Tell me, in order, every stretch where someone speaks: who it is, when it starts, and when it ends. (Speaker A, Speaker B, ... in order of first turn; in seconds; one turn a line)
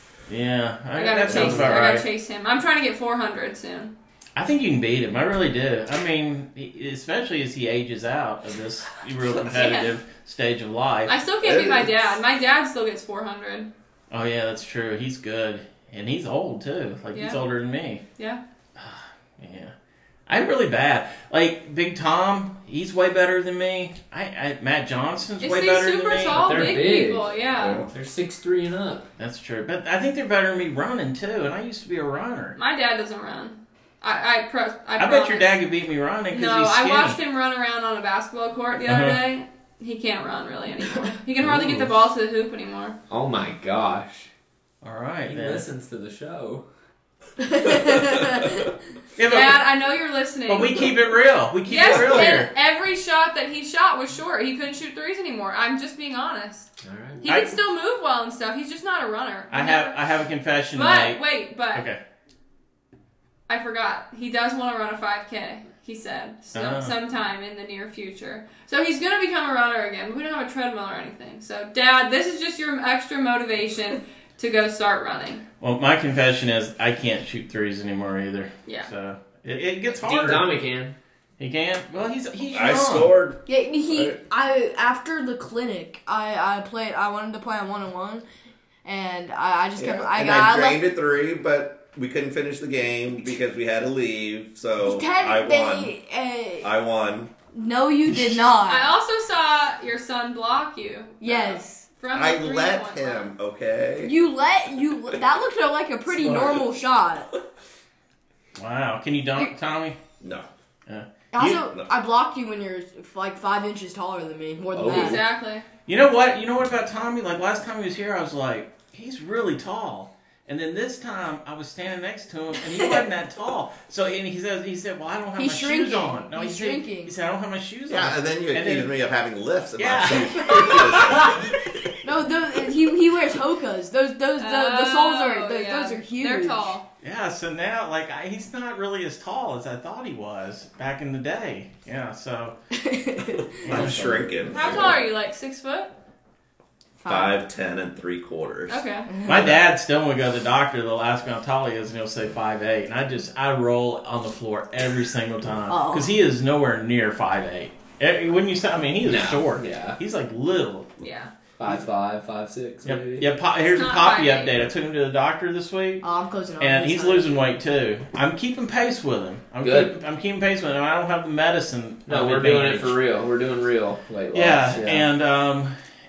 Speaker A: 0.3-2.1
Speaker B: 0.9-3.9
Speaker C: 1.3-1.7
Speaker A: 4.4-11.2
Speaker B: 9.4-9.9
Speaker B: 11.1-13.7
Speaker C: 11.4-12.1
Speaker A: 14.1-18.0
Speaker B: 17.1-17.4
Speaker A: 18.8-19.7
Speaker A: 20.3-26.7
Speaker B: 25.4-27.9
Speaker D: 26.3-27.3
Speaker C: 27.6-27.9
Speaker D: 27.9-29.1
Speaker A: 29.2-32.6
Speaker B: 32.6-35.5
Speaker A: 35.0-37.2
Speaker B: 36.3-43.0
Speaker A: 38.9-39.2
Speaker A: 41.5-41.7
Speaker D: 43.1-44.3
Speaker A: 44.8-45.6
Speaker D: 45.3-46.6
Speaker E: 47.4-48.6
Speaker A: 49.2-49.6
Speaker B: 49.2-50.9
Speaker A: 50.5-52.5
Speaker B: 51.7-56.7
Speaker C: 51.9-52.2
Speaker D: 56.8-57.3
Speaker B: 57.2-60.0
Speaker A: 57.3-57.6
Speaker A: 59.5-61.2
Speaker B: 60.7-61.9
Speaker A: 61.7-62.0
Speaker B: 63.5-75.4
Speaker A: 66.5-66.9
Speaker A: 75.6-80.5
Speaker D: 79.9-81.0
Speaker A: 81.4-83.1
Speaker C: 82.5-84.2
Speaker E: 83.5-88.2
Speaker E: 88.8-90.8
Speaker C: 89.8-95.9
Speaker E: 94.8-96.7
Speaker C: 96.6-97.3
Speaker E: 97.5-98.9
Speaker B: 98.7-103.3
Speaker E: 101.2-101.9
Speaker C: 102.1-104.2
Speaker E: 104.0-107.3
Speaker C: 106.1-106.6
Speaker A: 108.6-110.0
Speaker C: 110.2-110.5
Speaker A: 110.9-111.6
Speaker E: 111.3-115.2
Speaker C: 111.4-111.9
Speaker D: 114.7-115.2
Speaker B: 114.9-115.7
Speaker A: 115.9-128.9
Speaker E: 122.7-123.1
Speaker E: 125.4-127.1
Speaker C: 127.9-131.5
Speaker A: 129.8-131.0
Speaker E: 130.5-131.3
Speaker E: 132.0-136.8
Speaker B: 134.4-136.9
Speaker A: 137.0-142.6
Speaker E: 142.8-143.5
Speaker C: 143.6-145.0
Speaker A: 143.6-144.0
Speaker D: 143.7-144.3
Speaker B: 144.5-145.9
Speaker E: 147.0-147.3
Speaker C: 147.1-149.6
Speaker B: 148.7-149.1
Speaker A: 149.2-160.9
Speaker E: 155.7-156.1
Speaker D: 159.0-160.0
Speaker B: 161.0-161.3
Speaker D: 161.6-163.3
Speaker A: 162.8-166.1
Speaker B: 163.7-164.7
Speaker E: 166.0-167.3
Speaker A: 166.6-173.0
Speaker D: 169.6-169.9
Speaker D: 172.1-175.1
Speaker A: 174.3-175.8